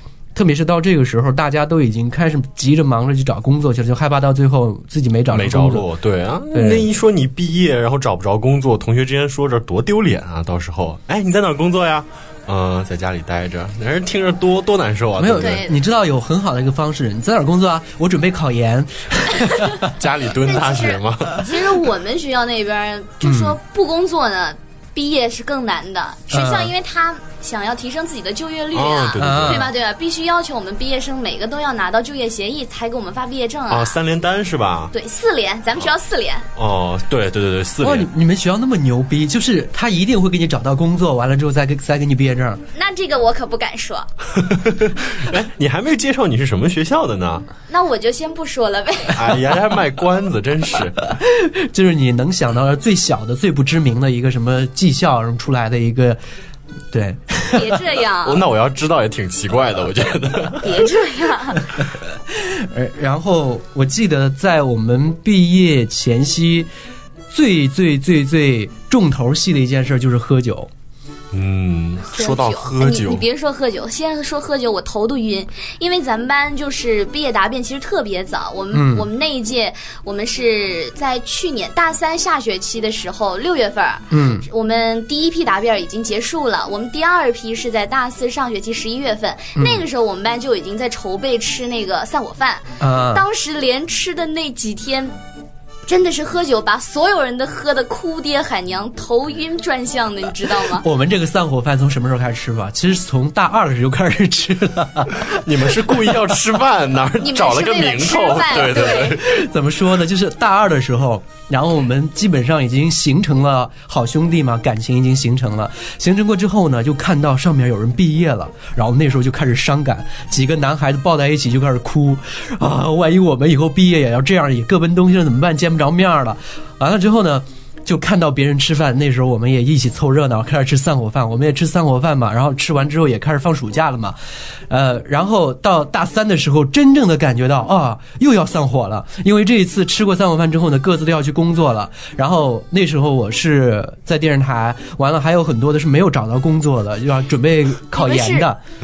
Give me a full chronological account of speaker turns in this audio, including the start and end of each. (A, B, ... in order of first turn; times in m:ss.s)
0:00.3-0:05.8 A
0:05.3-0:15.6 B
0:06.5-0:06.9 A
0:15.2-0:19.8 A
0:15.4-0:15.7 C
0:19.9-0:21.4 B
0:20.4-0:34.0 C
0:23.2-0:23.6 A
0:26.3-0:26.7 A
0:28.7-0:29.7 B
0:29.2-0:29.7 A
0:33.7-0:34.9 B
0:34.9-0:36.4 C
0:36.6-0:38.1 B
0:37.8-0:42.6 A
0:42.7-0:44.1 C
0:44.4-0:47.4 B
0:47.7-0:49.2 C
0:49.1-0:51.0 B
0:51.2-0:56.2 A
0:56.9-0:57.8 A
0:57.5-0:58.4 C
0:58.2-1:00.8 B
1:00.6-1:01.6 C
1:02.3-1:06.7 A
1:07.3-1:10.7 A
1:11.3-1:13.2 B
1:12.1-1:35.1 C
1:18.7-1:19.1 A
1:24.1-1:24.4 A
1:29.6-1:29.8 A
1:32.8-1:33.2 A
1:35.8-1:40.8 C
1:40.7-1:46.0 A
1:45.3-1:49.4 B
1:47.2-1:49.2 C
1:49.2-2:14.2 A
2:14.7-2:28.6 A
2:28.0-2:28.5 C